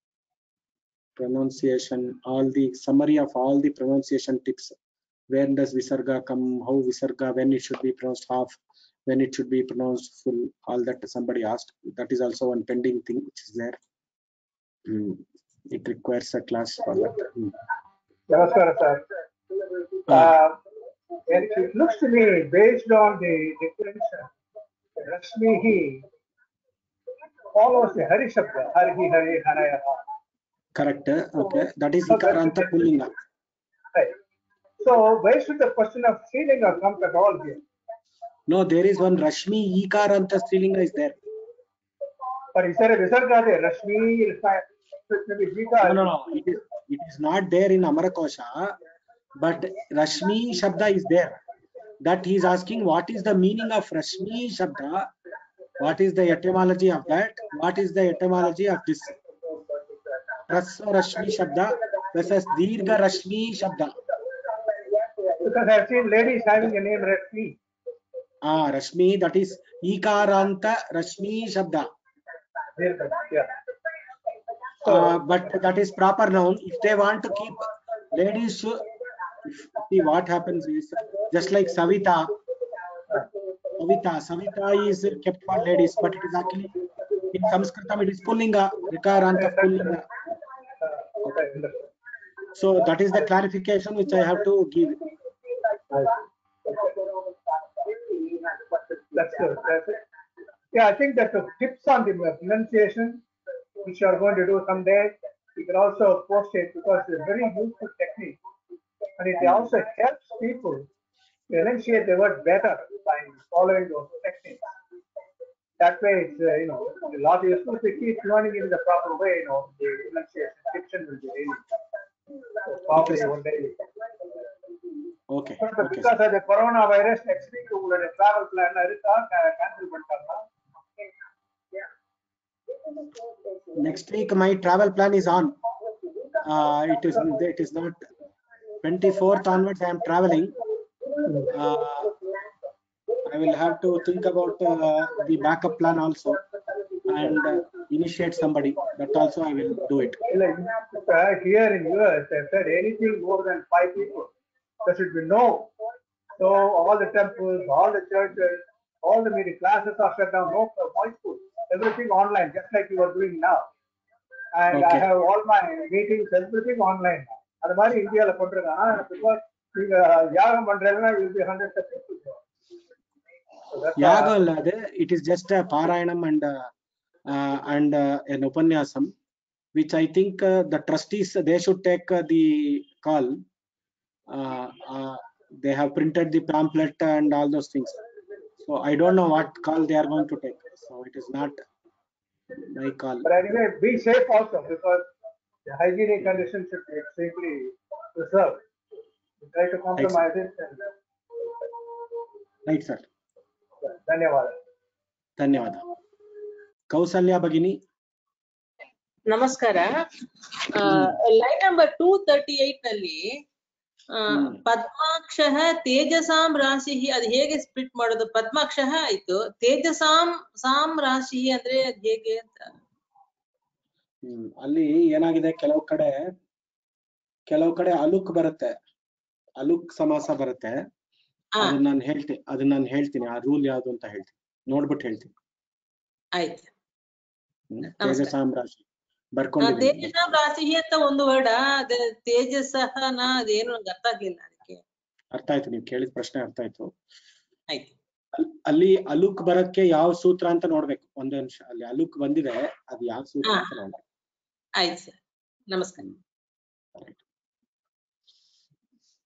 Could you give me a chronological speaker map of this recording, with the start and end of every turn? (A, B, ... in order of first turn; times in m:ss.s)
0:01.2-0:04.7 A
0:05.3-0:13.8 A
0:14.8-0:17.6 A
0:18.3-0:19.1 B
0:20.1-0:20.6 B
0:20.1-0:20.4 A
0:21.3-0:24.3 B
0:25.0-0:26.0 B
0:27.5-0:30.0 B
0:30.7-0:33.1 A
0:31.4-0:32.9 B
0:34.8-0:37.6 B
0:38.5-0:41.2 A
0:42.5-0:46.1 B
0:45.8-0:48.8 A
0:49.4-0:51.4 A
0:52.0-0:55.1 A
0:55.8-0:59.2 A
1:00.5-1:04.0 A
1:05.3-1:07.6 B
1:08.4-1:11.9 A
1:12.8-1:13.6 B
1:14.8-1:15.2 B
1:14.8-1:18.8 A
1:19.4-1:22.4 A
1:23.8-1:30.1 A
1:29.6-1:29.9 B
1:30.8-1:31.9 B
1:32.5-1:35.0 A
1:35.9-1:37.1 B
1:39.1-1:40.0 B
1:40.7-1:43.2 B
1:43.8-1:48.4 B
1:49.2-1:50.8 B
1:49.4-1:49.7 A
1:51.5-1:54.7 B
1:55.8-2:01.6 B
2:02.7-2:03.8 B
2:02.9-2:03.3 A
2:05.3-2:06.1 A
2:05.6-2:10.4 B
2:13.7-2:15.6 A
2:16.4-2:18.0 A
2:18.8-2:20.6 A
2:21.5-2:22.2 A
2:23.2-2:26.4 A
2:27.0-2:30.3 A
2:30.3-2:34.3 B
2:34.8-2:35.7 B
2:36.4-2:43.7 B
2:44.5-2:52.4 B
2:44.7-2:45.1 A
2:53.7-2:54.3 B
2:54.0-2:56.7 A
2:57.3-2:59.1 A
2:59.7-3:03.4 A
3:04.3-3:08.0 A
3:08.6-3:11.6 A
3:12.6-3:13.3 A
3:13.2-3:15.1 B
3:15.6-3:18.6 B
3:19.4-3:21.0 B
3:20.0-3:20.3 A
3:22.6-3:23.0 A
3:23.8-3:24.6 B
3:25.4-3:25.8 A
3:26.9-3:27.8 A
3:29.3-3:30.0 C
3:30.7-3:33.4 C
3:34.1-3:42.7 C
3:34.3-3:34.6 A
3:44.2-3:46.4 A
3:47.5-3:48.8 A
3:49.6-3:50.9 A
3:51.6-3:51.8 C
3:51.6-3:55.3 A
3:56.4-3:56.7 C
3:57.7-3:58.8 A
3:58.0-3:58.3 C
3:59.3-4:00.1 A
3:59.6-4:04.8 C
4:05.3-4:06.9 A
4:08.3-4:14.0 A
4:13.4-4:13.8 C
4:14.8-4:15.2 C
4:15.7-4:16.1 C
4:16.9-4:17.2 A